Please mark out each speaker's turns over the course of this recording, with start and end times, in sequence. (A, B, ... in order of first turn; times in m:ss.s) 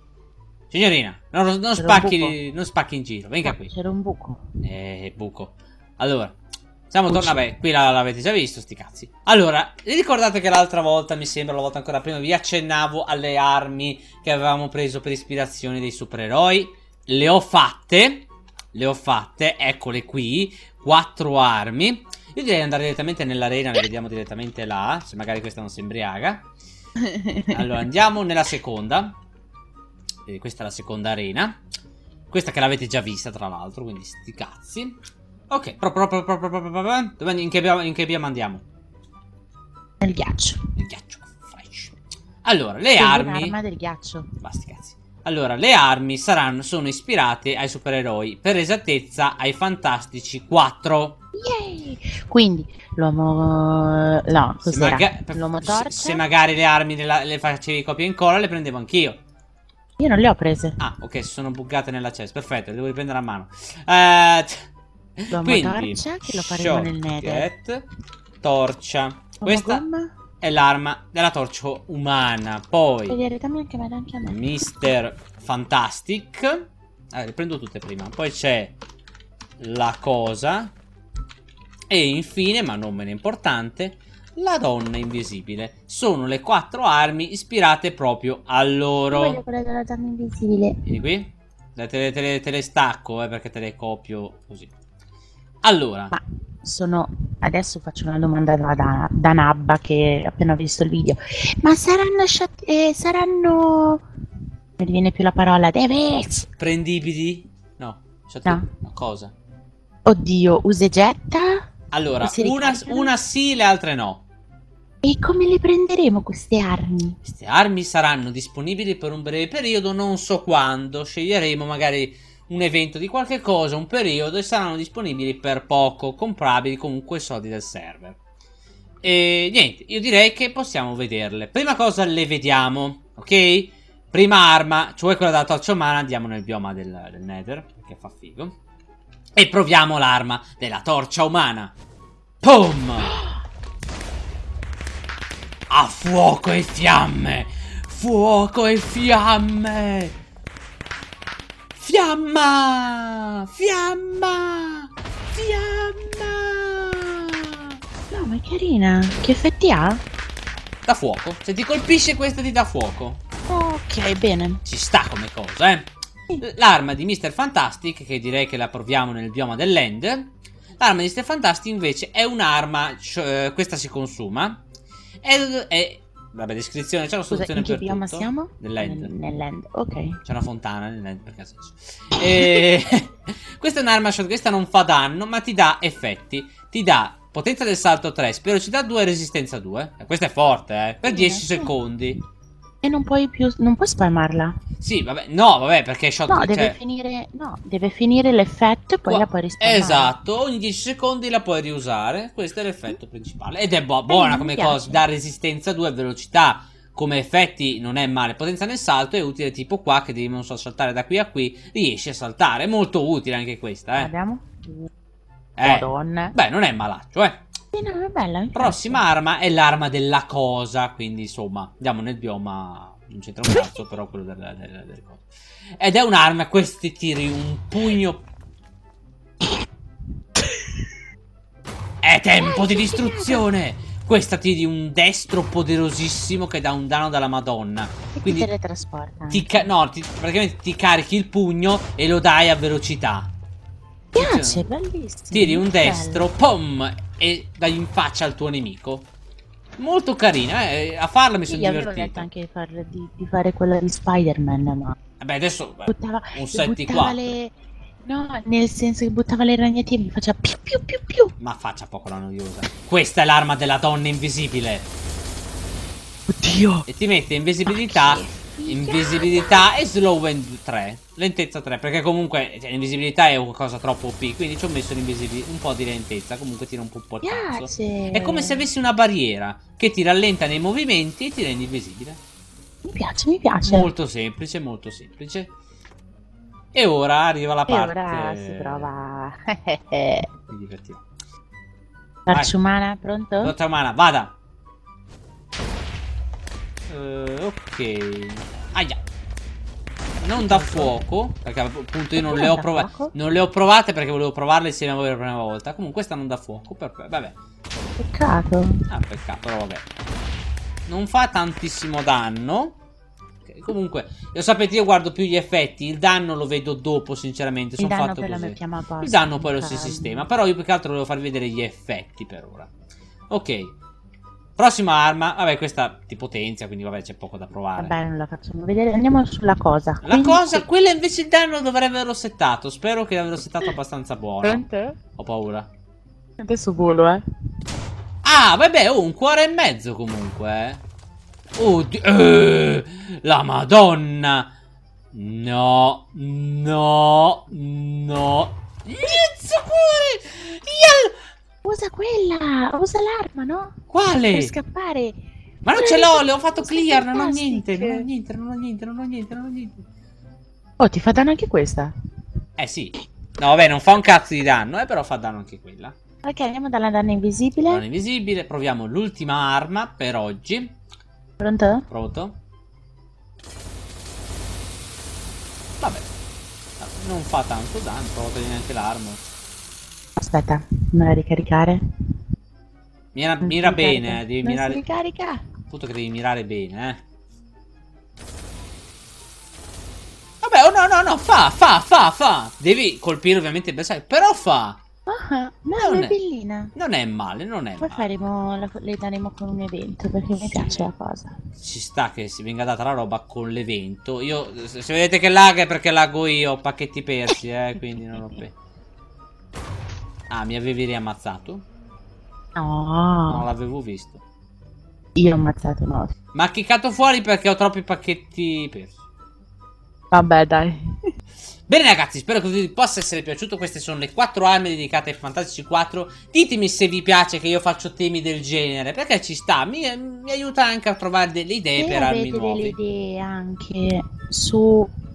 0:00.7-0:03.7 A
0:01.8-0:02.4 B
0:03.4-0:04.4 B
0:04.6-0:06.4 A
0:06.9-0:26.5 A
0:07.1-0:07.4 B
0:27.0-0:27.6 B
0:27.5-0:29.2 A
0:30.2-0:31.6 A
0:32.3-0:35.0 A
0:35.5-0:38.6 A
0:40.0-0:40.6 B
0:40.8-0:43.6 A
0:42.9-0:44.3 B
0:44.4-0:51.2 A
0:51.4-0:56.2 B
0:54.6-0:59.2 A
1:00.0-1:00.8 B
1:00.8-1:04.7 A
1:05.2-1:07.8 A
1:05.3-1:07.5 B
1:08.4-1:09.8 A
1:09.4-1:10.1 B
1:10.4-1:13.2 A
1:13.1-1:14.9 B
1:14.3-1:18.8 A
1:19.6-1:20.7 A
1:21.9-1:29.4 A
1:29.1-1:30.8 B
1:30.8-1:34.7 A
1:35.6-1:36.1 A
1:36.1-1:44.0 B
1:44.8-1:46.5 B
1:46.6-1:49.3 A
1:50.0-1:51.7 B
1:51.9-1:54.2 A
1:52.2-1:53.1 B
1:55.0-1:57.2 B
1:57.2-2:08.2 A
2:09.0-2:18.5 A
2:19.4-2:21.7 A
2:22.4-2:23.1 A
2:25.7-2:30.1 A
2:31.8-2:37.8 A
2:38.1-2:40.0 B
2:40.8-2:43.2 A
2:43.5-2:44.6 B
2:44.6-2:54.6 A
2:55.2-2:59.1 A
2:57.3-3:00.2 B
3:00.2-3:12.2 A
3:11.0-3:11.7 B
3:12.8-3:14.6 B
3:14.8-3:16.8 A
3:16.3-3:20.1 B
3:19.0-3:34.1 A
3:24.1-3:25.0 B
3:33.9-3:34.9 B
3:35.6-3:37.4 A
3:35.6-3:36.3 B
3:37.7-3:39.0 B
3:38.5-3:45.2 A
3:45.8-3:48.2 A
3:52.0-3:58.5 A
3:52.4-3:53.5 B
3:58.1-3:59.7 B
3:59.3-4:03.3 A
4:04.1-4:04.7 A
4:04.1-4:06.3 B
4:05.3-4:09.1 A
4:09.8-4:12.3 A
4:11.5-4:15.0 B
4:15.2-4:17.4 A
4:15.9-4:17.5 B
4:18.0-4:21.3 B
4:21.4-4:24.9 A
4:26.3-4:26.8 B
4:26.9-4:42.2 A
4:27.6-4:29.6 B
4:37.2-4:38.7 B
4:42.8-4:43.9 B
4:43.6-4:45.5 A
4:46.7-4:48.9 A
4:47.7-4:50.3 B
4:50.5-4:51.0 A
4:52.2-4:53.5 B
4:53.4-4:54.3 A
4:56.9-4:59.0 A
5:00.2-5:07.4 A
5:00.4-5:00.9 B
5:02.2-5:03.1 B
5:08.0-5:08.8 B
5:08.9-5:09.8 A
5:10.9-5:12.8 A
5:13.4-5:22.7 A
5:17.8-5:20.3 B
5:23.3-5:23.7 A
5:24.6-5:27.9 A
5:27.8-5:30.6 B
5:30.0-5:35.7 A
5:34.4-5:35.0 B
5:36.4-5:37.2 B
5:38.2-5:40.8 A
5:41.6-5:44.5 A
5:45.1-5:51.1 A
5:51.6-5:53.8 B
5:53.9-5:54.5 A
5:54.3-5:58.1 B
5:55.6-5:59.8 A
6:00.8-6:01.9 B
6:02.6-6:05.9 A
6:06.2-6:07.8 B
6:07.7-6:10.8 A
6:11.4-6:11.8 B
6:11.9-6:12.4 A
6:15.8-6:16.1 A
6:16.8-6:19.2 A
6:20.2-6:21.8 B
6:23.1-6:24.8 A
6:23.4-6:25.4 B
6:25.7-6:27.0 A
6:30.4-6:34.8 A
6:35.1-6:36.7 B
6:35.8-6:36.2 A
6:36.7-6:38.1 A
6:37.8-6:41.4 B
6:40.4-6:40.9 A
6:41.6-6:48.5 A
6:50.3-6:51.6 A
6:52.6-6:53.5 B
6:53.3-6:54.2 A
6:55.2-6:56.1 B
6:56.3-6:59.0 A
7:00.1-7:00.8 B
7:01.7-7:12.8 A
7:11.8-7:14.9 B